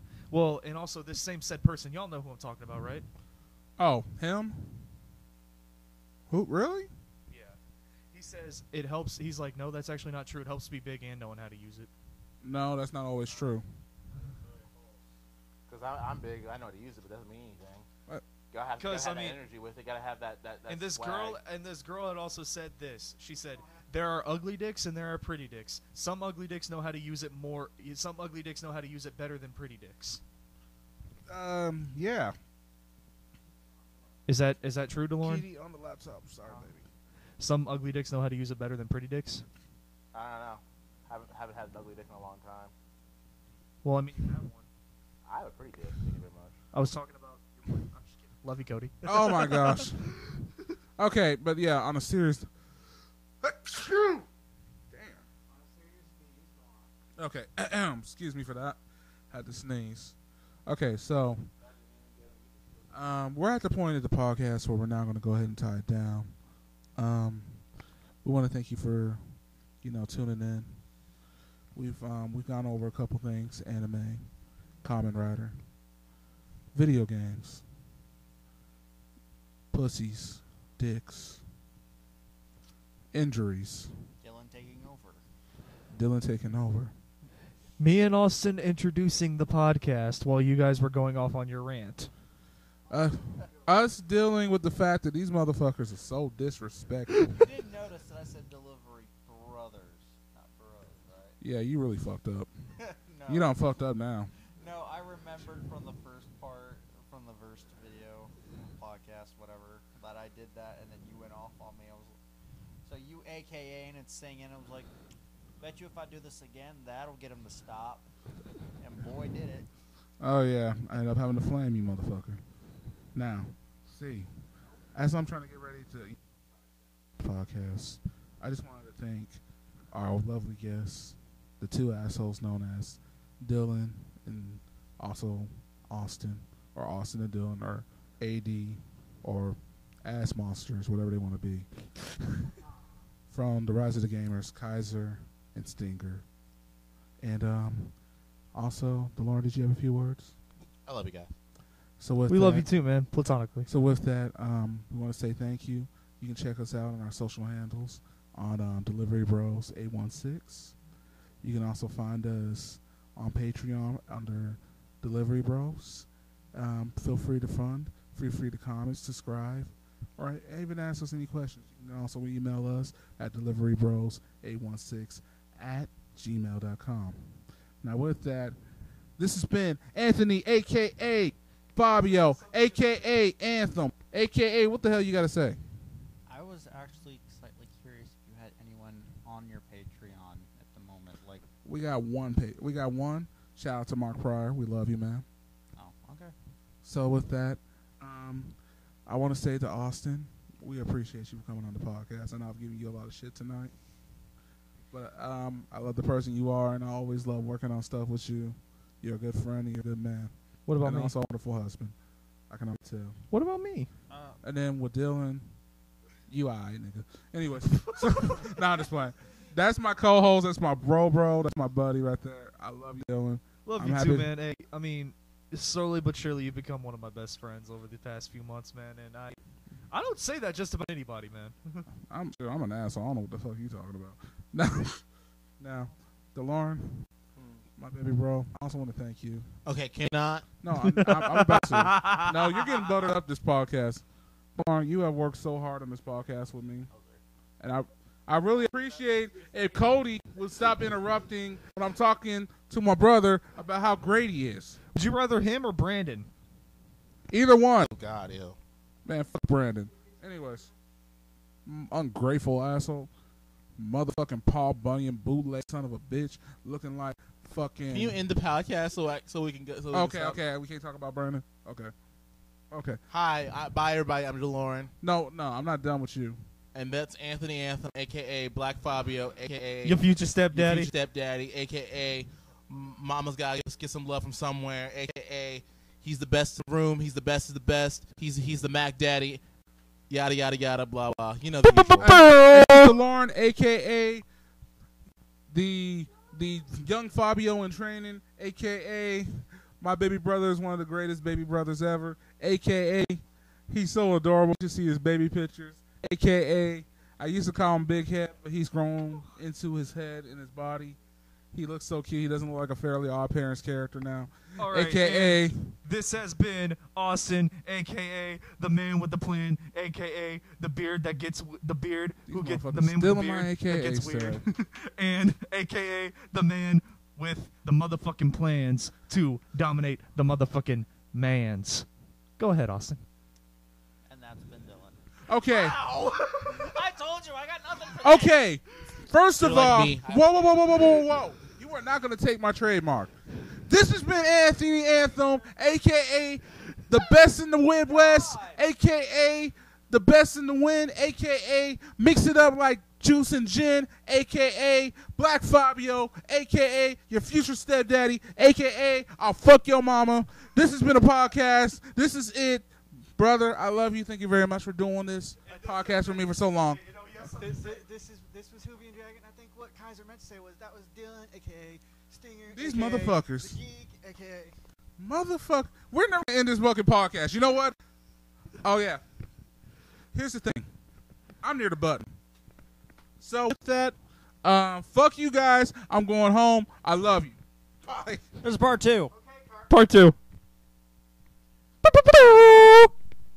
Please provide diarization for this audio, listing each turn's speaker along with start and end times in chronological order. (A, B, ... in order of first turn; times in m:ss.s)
0:00.3-0:03.1 A
0:03.8-0:04.9 B
0:06.3-0:06.9 B
0:07.3-0:07.6 A
0:08.1-0:11.9 A
0:12.4-0:13.7 B
0:15.7-0:17.9 C
0:18.5-0:21.4 C
0:18.8-0:19.4 A
0:20.7-0:30.2 A
0:31.3-0:32.4 B
0:34.3-0:35.4 A
0:35.2-0:36.8 B
0:37.4-0:39.4 A
0:40.1-0:42.7 C
0:43.8-0:44.7 A
0:45.3-0:46.6 C
0:46.7-0:49.9 A
0:49.0-0:50.2 B
0:51.0-0:52.5 B
0:53.4-0:54.3 B
0:54.9-0:55.3 B
0:55.5-0:56.9 D
0:57.2-0:58.8 B
0:59.3-1:00.2 B
1:00.7-1:01.5 B
1:02.9-1:06.4 B
1:07.0-1:07.6 B
1:08.2-1:09.2 B
1:09.8-1:10.8 B
1:11.8-1:14.3 B
1:14.8-1:15.6 B
1:16.7-1:17.6 B
1:19.7-1:21.4 B
1:23.1-1:23.9 B
1:24.2-1:25.2 E
1:25.9-1:26.9 B
1:27.8-1:32.1 A
1:32.9-1:37.3 B
1:37.4-1:41.4 E
1:41.4-1:42.5 B
1:42.8-1:43.6 E
1:43.3-1:44.3 B
1:44.6-1:52.2 E
1:52.8-1:54.9 E
1:55.6-1:58.1 E
1:58.8-1:59.7 E
2:00.2-2:02.4 B
2:03.2-2:04.3 B
2:04.9-2:06.2 B
2:07.2-2:09.4 B
2:09.9-2:22.5 B
2:23.3-2:26.2 B
2:27.2-2:28.0 B
2:28.5-2:30.3 B
2:30.9-2:31.3 C
2:32.0-2:32.7 B
2:32.3-2:33.7 A
2:33.7-2:40.8 B
2:41.4-2:58.6 B
2:59.2-3:05.6 B
3:06.3-3:11.4 E
3:11.6-3:15.3 B
3:15.8-3:16.3 E
3:16.8-3:23.7 B
3:24.9-3:32.0 B
3:30.7-3:31.1 A
3:32.5-3:33.2 B
3:33.3-3:33.9 A
3:34.1-3:34.4 E
3:34.4-3:35.5 B
3:36.3-3:44.3 B
3:43.6-3:49.4 A
3:49.9-3:51.9 A
3:52.0-3:55.0 B
3:55.6-3:57.1 B
3:57.4-3:57.6 C
3:57.8-3:59.5 B
3:59.7-4:00.5 C
4:00.6-4:04.0 B
4:00.8-4:02.7 A
4:04.6-4:06.9 B
4:06.9-4:07.2 C
4:07.6-4:14.8 B
4:14.9-4:16.3 A
4:17.3-4:17.9 B
4:17.9-4:18.6 C
4:19.0-4:20.7 B
4:21.7-4:23.1 B
4:23.8-4:28.2 B
4:27.9-4:30.4 C
4:29.9-4:31.9 B
4:32.7-4:33.0 B
4:33.1-4:34.9 C
4:35.0-4:36.4 B
4:36.7-4:49.4 C
4:39.8-4:40.9 A
4:50.1-4:52.1 C
4:51.6-4:53.0 A
4:52.0-4:54.2 B
4:55.5-5:11.0 B
5:11.5-5:15.8 B
5:14.6-5:31.9 A
5:22.3-5:24.4 B
5:32.4-5:33.0 A
5:34.1-5:35.0 E
5:35.3-5:35.8 B
5:35.5-5:36.8 D
5:36.5-5:38.4 E
5:38.0-5:43.1 B
5:39.4-5:40.7 C
5:43.7-6:06.8 B
5:47.9-5:48.6 E
6:05.4-6:07.8 A
6:07.2-6:14.5 D
6:12.5-6:13.6 B
6:15.0-6:17.8 B
6:18.6-6:19.0 B
6:20.1-6:20.7 B
6:21.4-6:22.1 B
6:23.2-6:27.4 B
6:27.9-6:28.2 C
6:28.4-6:29.1 E
6:29.1-6:29.8 D
6:29.7-6:30.2 A
6:31.8-6:32.9 A